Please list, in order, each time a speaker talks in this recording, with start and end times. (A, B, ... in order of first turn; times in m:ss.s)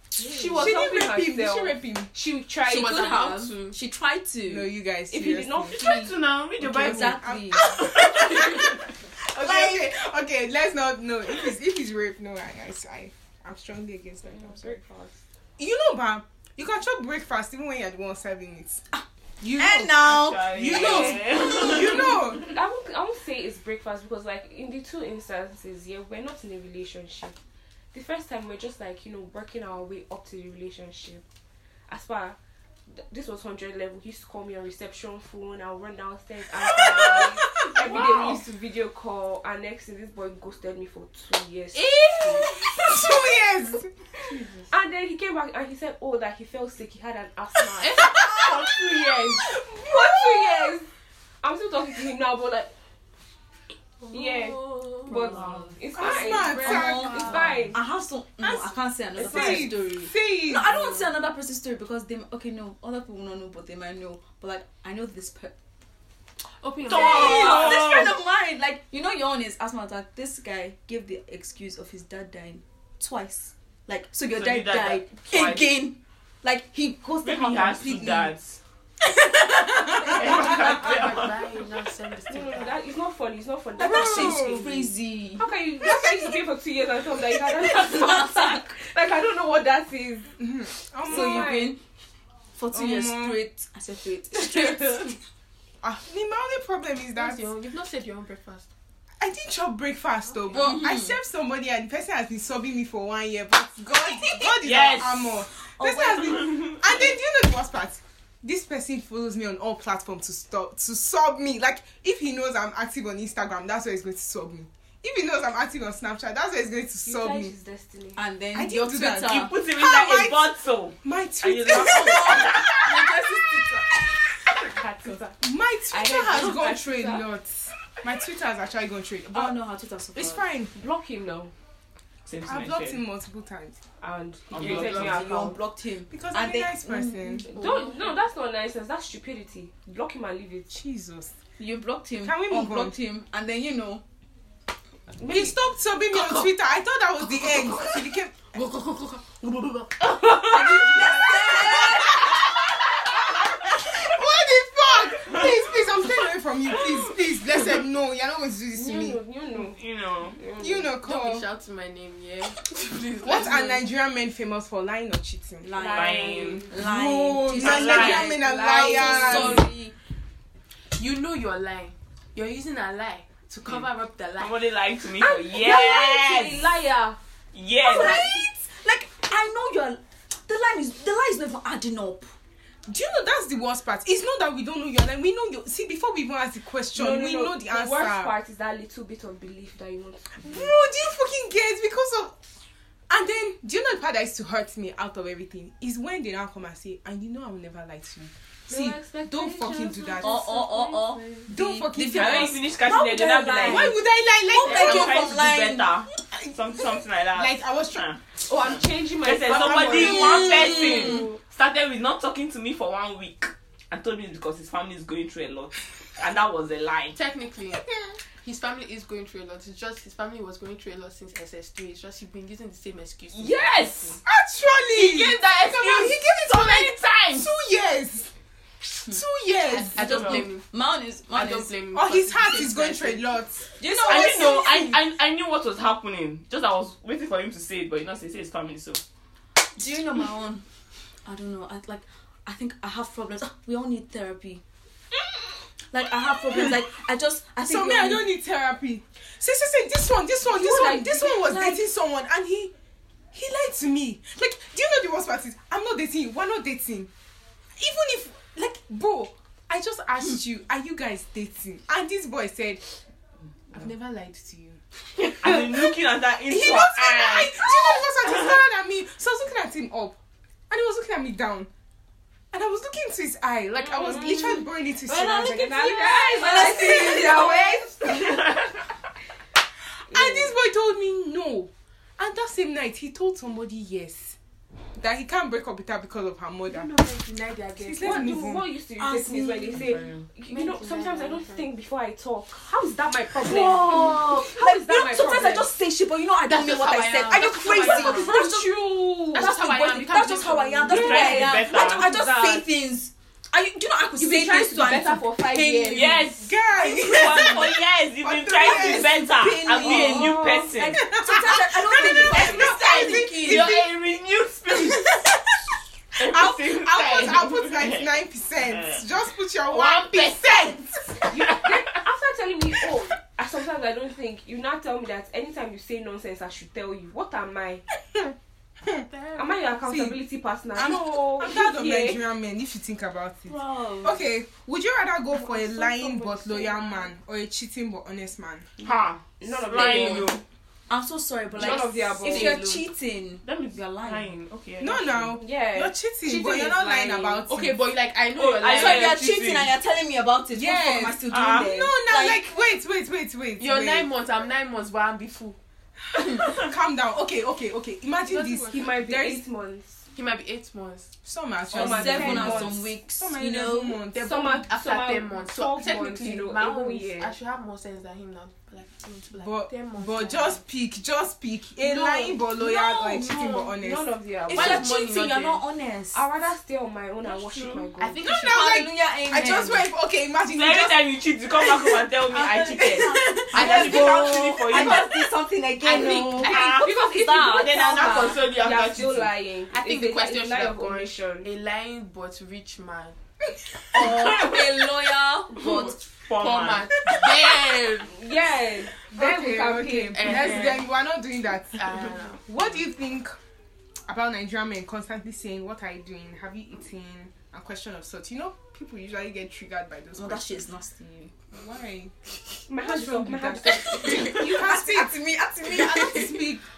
0:00.2-0:03.2 A
0:00.5-0:02.1 B
0:02.7-0:03.8 C
0:02.7-0:04.7 D
0:04.5-0:05.8 B
0:05.1-0:06.2 A
0:05.7-0:08.8 E
0:06.6-0:14.8 B
0:06.6-0:07.8 D
0:09.4-0:09.8 E
0:14.2-0:15.2 A
0:15.6-0:18.8 B
0:19.4-0:22.5 B
0:19.5-0:21.2 D
0:20.0-0:22.2 E
0:21.6-0:27.4 A
0:27.9-0:31.2 A
0:31.9-0:32.4 A
0:32.9-0:42.4 A
0:36.6-0:38.4 B
0:41.8-0:42.6 C
0:42.3-0:43.9 B
0:44.3-0:50.9 A
0:47.8-0:48.8 C
0:48.0-0:50.7 B
0:51.4-0:52.7 A
0:54.0-0:55.6 C
0:54.1-0:57.8 A
0:55.1-1:05.6 D
0:56.0-0:57.7 B
0:56.5-0:57.6 C
0:58.4-1:01.1 B
0:59.2-0:59.7 A
1:06.6-1:07.8 C
1:06.8-1:08.2 E
1:06.9-1:18.3 D
1:14.3-1:15.7 E
1:17.2-1:18.6 E
1:19.2-1:20.5 D
1:19.5-1:20.6 B
1:20.0-1:21.4 E
1:20.2-1:22.8 C
1:22.3-1:24.9 A
1:23.8-1:25.5 D
1:23.8-1:24.8 B
1:25.4-1:30.4 A
1:27.7-1:28.7 D
1:30.4-1:31.6 B
1:31.0-1:31.8 A
1:31.1-1:31.8 D
1:32.6-1:35.2 D
1:32.7-1:33.4 B
1:35.8-1:37.5 B
1:37.2-1:38.7 C
1:39.2-1:57.5 B
1:40.4-1:40.8 C
1:40.5-1:41.2 D
1:44.6-1:45.4 E
1:45.8-1:46.7 D
1:57.0-1:58.2 A
1:58.2-1:59.5 D
1:58.5-2:00.5 B
1:59.2-2:02.9 E
2:01.0-2:03.0 B
2:02.9-2:03.8 C
2:04.5-2:07.3 A
2:05.4-2:09.6 B
2:09.3-2:10.5 D
2:10.1-2:10.7 B
2:10.8-2:11.5 A
2:12.3-2:13.0 E
2:12.5-2:13.8 B
2:14.0-2:15.6 A
2:14.5-2:15.3 E
2:14.6-2:17.4 D
2:16.1-2:17.5 B
2:17.5-2:18.1 C
2:17.5-2:20.7 A
2:20.7-2:21.4 B
2:21.6-2:24.0 D
2:22.2-2:23.0 B
2:25.2-2:25.6 A
2:25.3-2:28.5 B
2:28.6-2:30.0 C
2:30.0-2:31.0 A
2:30.4-2:32.4 D
2:30.8-2:31.9 B
2:33.2-2:39.2 B
2:37.5-2:37.8 C
2:38.7-2:39.8 A
2:39.6-2:40.4 E
2:40.3-2:40.9 A
2:40.6-2:41.5 B
2:41.0-2:43.8 C
2:43.2-2:49.6 B
2:45.6-2:50.0 D
2:45.8-2:46.7 A
2:45.9-2:46.7 E
2:47.6-2:48.3 E
2:48.9-2:49.6 C
2:51.0-2:54.6 C
2:54.4-2:56.7 E
2:55.2-2:57.2 A
2:57.5-2:58.3 E
2:57.8-3:02.3 D
3:02.9-3:08.3 B
3:06.9-3:10.7 A
3:10.4-3:12.4 B
3:13.1-3:20.4 B
3:18.7-3:21.5 A
3:20.2-3:26.0 D
3:21.5-3:22.7 B
3:22.1-3:23.9 E
3:23.6-3:25.4 B
3:24.6-3:37.2 E
3:27.3-3:28.1 B
3:28.5-3:31.0 A
3:29.5-3:31.1 B
3:30.2-3:31.3 D
3:37.1-3:37.9 C
3:38.4-3:44.2 C
3:43.3-3:44.2 E
3:44.2-3:48.3 B
3:44.9-3:47.5 C
3:48.9-3:50.4 B
3:49.7-3:50.6 C
3:49.9-3:51.7 D
3:51.3-3:53.3 C
3:51.9-3:55.0 B
3:53.8-3:54.8 D
3:54.1-3:59.0 E
3:59.8-4:00.6 D
4:01.2-4:04.6 D
4:05.9-4:08.3 D
4:07.6-4:12.7 B
4:10.5-4:11.8 D
4:10.6-4:11.8 A
4:13.3-4:17.1 B
4:17.8-4:22.8 B
4:23.7-4:24.4 C
4:23.8-4:24.8 B
4:25.4-4:28.4 E
4:25.4-4:25.9 B
4:26.5-4:30.2 B
4:30.7-4:31.7 B
4:32.5-4:38.3 B
4:33.8-4:38.3 A
4:36.4-4:37.7 D
4:38.2-4:38.7 E
4:40.1-4:44.4 B
4:40.1-4:40.6 A
4:45.0-4:46.9 B
4:46.7-4:48.5 C
4:47.8-4:48.7 B
4:48.0-4:55.7 A
4:49.0-4:49.9 D
4:49.7-4:50.2 E
4:50.5-4:51.7 C
4:53.4-4:58.8 D
4:56.4-4:58.4 C
4:57.6-4:59.5 A
4:59.3-5:01.3 C
4:59.3-5:06.3 D
5:00.9-5:02.1 E
5:00.9-5:02.7 A
5:04.2-5:06.2 A
5:05.9-5:11.0 E
5:06.4-5:10.1 B
5:09.4-5:13.7 D
5:09.8-5:10.8 A
5:11.0-5:14.0 B
5:12.0-5:12.6 A
5:12.5-5:13.4 C
5:12.5-5:15.2 E
5:14.7-5:15.4 B
5:16.2-5:21.3 B
5:16.2-5:19.0 E
5:19.7-5:20.4 E
5:21.3-5:27.8 A
5:29.1-5:29.7 C
5:29.4-5:32.2 A
5:29.8-5:30.2 B
5:30.8-5:38.7 B
5:33.5-5:34.2 D
5:35.3-5:37.1 A
5:38.8-5:40.4 E
5:38.9-5:40.3 A
5:39.8-5:40.3 C
5:40.9-5:44.3 D
5:41.6-5:42.6 A
5:41.6-5:42.8 C
5:43.4-5:45.4 E
5:44.8-5:47.9 B
5:45.4-5:47.4 A
5:46.3-5:49.2 C
5:48.4-5:49.7 E
5:48.6-5:52.4 D
5:50.5-5:54.1 B
5:51.3-5:51.8 E
5:53.6-5:55.6 C
5:56.1-5:59.4 B
5:58.3-5:58.9 C
5:58.7-6:00.0 A
6:00.2-6:01.1 C
6:01.2-6:04.3 B
6:01.7-6:02.8 A
6:01.7-6:04.0 D
6:04.1-6:10.6 C
6:04.2-6:07.4 A
6:09.4-6:14.0 B
6:11.8-6:13.7 C
6:13.8-6:14.9 A
6:14.5-6:15.6 C
6:14.5-6:16.2 D
6:16.1-6:18.2 A
6:18.0-6:18.8 C
6:18.2-6:21.0 B
6:18.3-6:19.9 D
6:20.5-6:25.1 E
6:21.6-6:24.9 B
6:22.3-6:28.4 D
6:23.5-6:25.0 C
6:25.8-6:26.8 C
6:26.0-6:31.5 A
6:26.4-6:29.3 E
6:29.7-6:33.2 C
6:33.9-6:36.0 D
6:34.1-6:34.6 E
6:35.6-6:37.2 E
6:35.6-6:38.2 C
6:38.0-6:40.8 A
6:39.1-6:43.4 B
6:40.1-6:40.9 C
6:41.8-6:42.7 C
6:44.1-6:50.5 B
6:50.2-6:51.3 D
6:51.5-6:52.1 B
6:52.7-6:54.7 A
6:52.8-6:56.6 B
6:54.1-6:56.4 D